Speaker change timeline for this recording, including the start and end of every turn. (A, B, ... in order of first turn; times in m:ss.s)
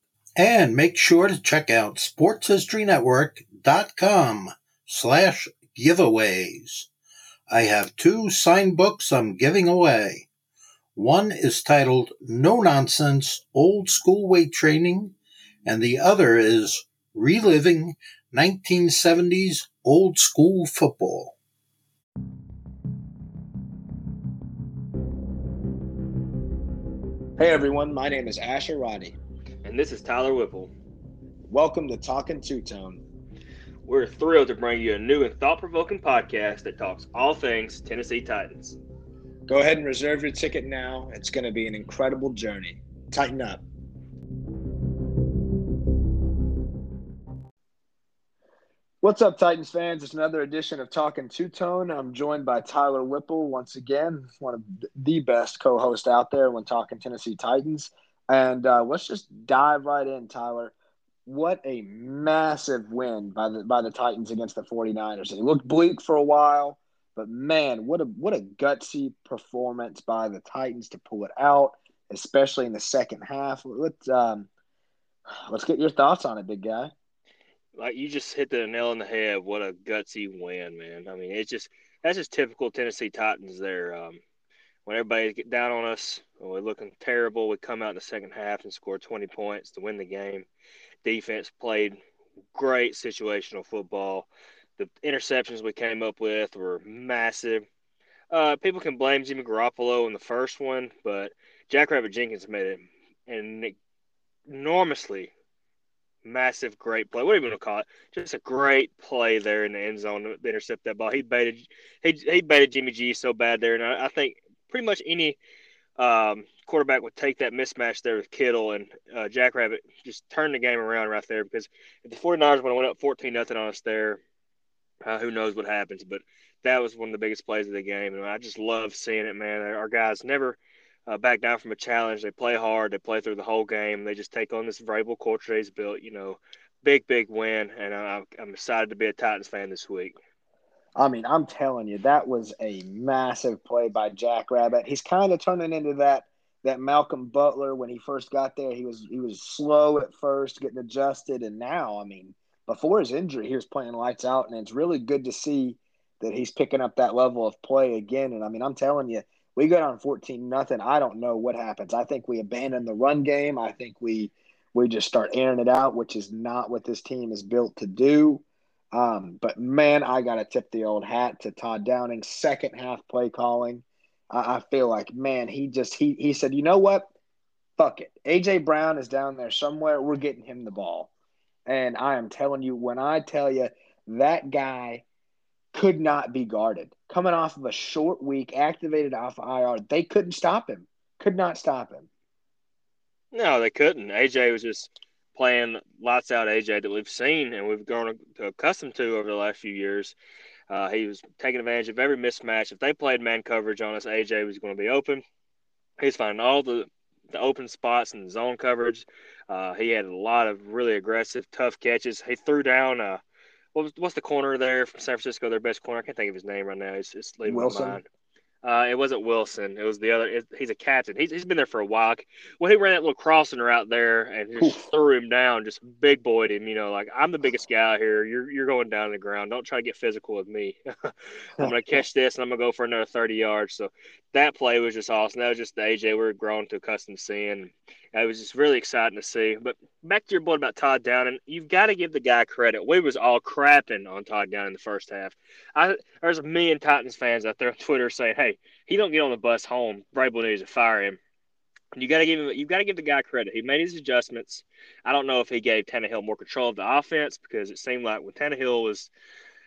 0:00.4-0:06.9 A
0:07.5-0:10.3 A
0:11.0-0:21.4 A
0:27.4-0:29.2 B
0:29.6-0:30.7 C
0:31.5-0:33.0 B
0:33.9-0:38.8 C
0:39.5-0:43.6 B
0:49.0-1:00.7 B
1:01.3-1:14.5 B
1:15.5-1:16.9 B
1:17.8-1:24.2 C
1:24.9-1:30.5 C
1:31.0-1:32.0 C
1:32.5-1:34.3 C
1:34.8-1:37.7 C
1:38.3-1:43.8 C
1:44.5-1:45.3 C
1:46.2-1:55.4 C
1:56.0-2:04.2 C
2:05.0-2:20.2 C
2:21.0-2:57.1 B
2:57.8-3:01.1 B
3:01.7-3:05.0 B
3:05.7-3:12.1 B
3:13.3-3:20.2 C
3:20.7-3:25.2 C
3:26.0-3:33.2 C
3:33.8-3:38.0 C
3:37.4-3:38.0 B
3:38.6-4:11.2 C
3:51.6-3:52.0 B
4:12.0-4:19.1 C